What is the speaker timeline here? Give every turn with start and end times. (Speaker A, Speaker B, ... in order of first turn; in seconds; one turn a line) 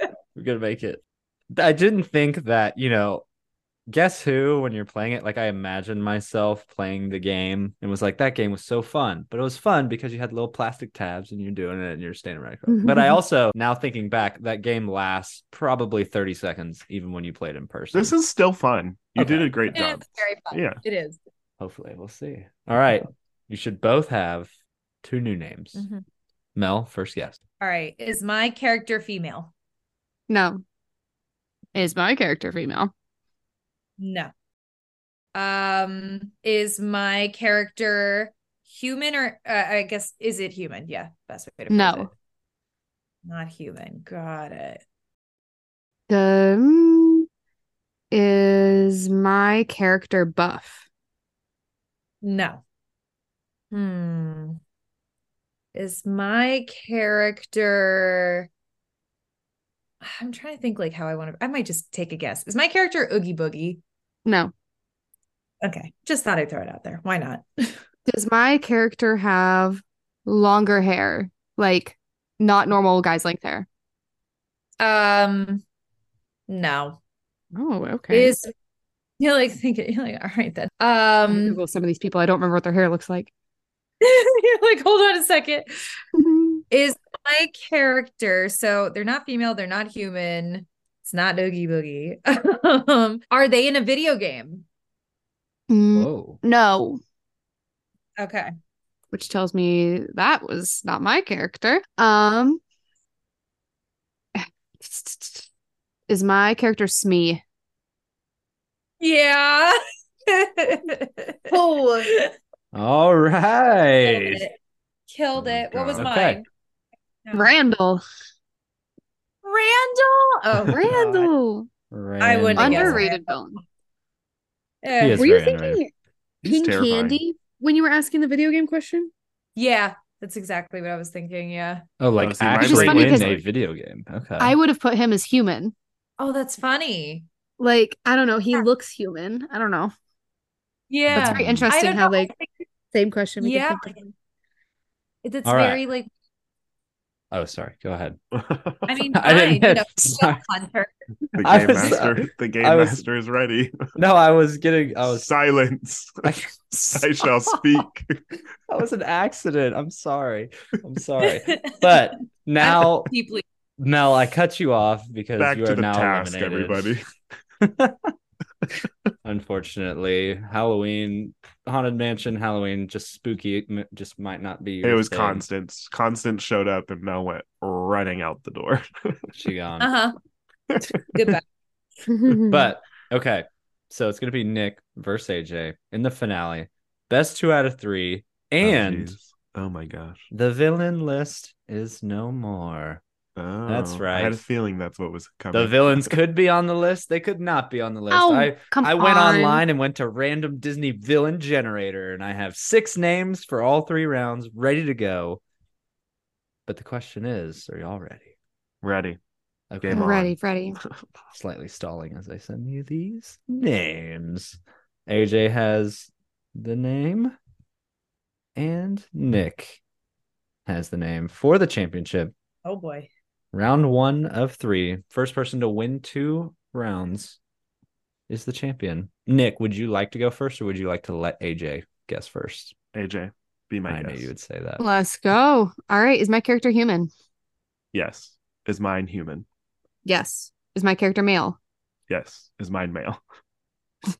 Speaker A: 0.3-3.2
Speaker A: 3.9-18.1
Speaker B: 12.7-13.2
Speaker C: 17.9-20.8
Speaker A: 19.2-19.6
Speaker D: 19.7-21.2
Speaker A: 21.6-24.5
Speaker A: 25.0-25.9
Speaker D: 25.7-26.0
Speaker A: 26.5-27.4
Speaker D: 27.6-29.5
Speaker B: 30.3-30.6
Speaker B: 31.7-32.9
Speaker D: 34.0-34.3
Speaker D: 35.3-42.1
Speaker B: 41.7-42.1
Speaker D: 43.2-44.8
Speaker B: 46.1-47.2
Speaker B: 48.1-50.8
Speaker D: 52.2-52.6
Speaker D: 53.7-54.6
Speaker D: 55.7-58.5
Speaker D: 60.0-63.8
Speaker B: 64.2-64.5
Speaker D: 65.6-67.8
Speaker B: 68.0-73.7
Speaker D: 74.8-75.6
Speaker D: 76.5-77.0
Speaker B: 77.5-78.3
Speaker D: 78.1-78.5
Speaker D: 79.2-81.6
Speaker B: 81.3-83.3
Speaker D: 84.0-85.7
Speaker B: 86.2-86.6
Speaker D: 86.7-94.6
Speaker B: 95.7-97.0
Speaker A: 95.9-96.4
Speaker D: 98.2-98.5
Speaker B: 99.1-102.6
Speaker B: 104.3-105.5
Speaker B: 106.1-107.4
Speaker D: 109.0-112.3
Speaker B: 111.5-112.1
Speaker A: 112.7-114.4
Speaker D: 114.0-114.5
Speaker D: 115.1-116.4
Speaker A: 115.4-116.4
Speaker C: 115.6-116.1
Speaker D: 117.2-117.5
Speaker B: 117.3-118.0
Speaker D: 119.4-121.2
Speaker B: 120.7-121.7
Speaker A: 121.9-123.0
Speaker D: 122.2-123.2
Speaker B: 122.5-123.6
Speaker D: 124.8-125.2
Speaker A: 125.0-125.8
Speaker B: 125.1-125.9
Speaker C: 126.4-127.2
Speaker B: 126.4-129.1
Speaker D: 129.6-131.8
Speaker A: 132.0-134.6
Speaker C: 132.2-133.4
Speaker B: 132.6-133.3
Speaker B: 134.4-135.7
Speaker D: 136.2-137.2
Speaker B: 137.6-139.9
Speaker D: 140.9-142.5
Speaker A: 141.1-141.7
Speaker B: 141.1-142.3
Speaker B: 142.9-143.9
Speaker D: 143.4-144.1
Speaker D: 145.2-146.1
Speaker A: 145.4-145.8
Speaker A: 147.3-148.2
Speaker C: 148.3-148.9
Speaker D: 148.9-150.9
Speaker A: 149.1-150.4
Speaker C: 151.4-153.8
Speaker A: 151.4-153.1
Speaker A: 153.9-155.3
Speaker C: 155.0-156.3
Speaker A: 156.2-157.6
Speaker C: 156.9-158.2
Speaker A: 158.7-163.1
Speaker D: 161.2-163.4
Speaker A: 163.8-166.9
Speaker C: 165.4-167.0
Speaker A: 167.6-168.1
Speaker A: 169.2-175.4
Speaker C: 174.8-179.2
Speaker A: 179.3-179.9
Speaker D: 179.8-180.1
Speaker D: 181.1-181.4
Speaker B: 182.1-182.7
Speaker A: 182.4-189.1
Speaker C: 188.6-190.3
Speaker A: 190.3-193.0
Speaker C: 193.3-196.2
Speaker A: 193.7-194.4
Speaker A: 195.5-205.4
Speaker B: 198.1-199.6
Speaker A: 206.7-208.3
Speaker C: 208.8-209.2
Speaker A: 209.7-210.3
Speaker C: 209.8-210.3
Speaker B: 209.9-210.8
Speaker A: 211.3-217.3
Speaker A: 218.6-219.8
Speaker A: 220.7-222.3
Speaker D: 222.6-223.1
Speaker A: 223.5-227.4
Speaker A: 228.3-232.7
Speaker C: 232.9-234.3
Speaker A: 233.9-234.8
Speaker B: 234.8-237.1
Speaker C: 237.9-239.4
Speaker B: 240.0-241.6
Speaker C: 242.1-243.2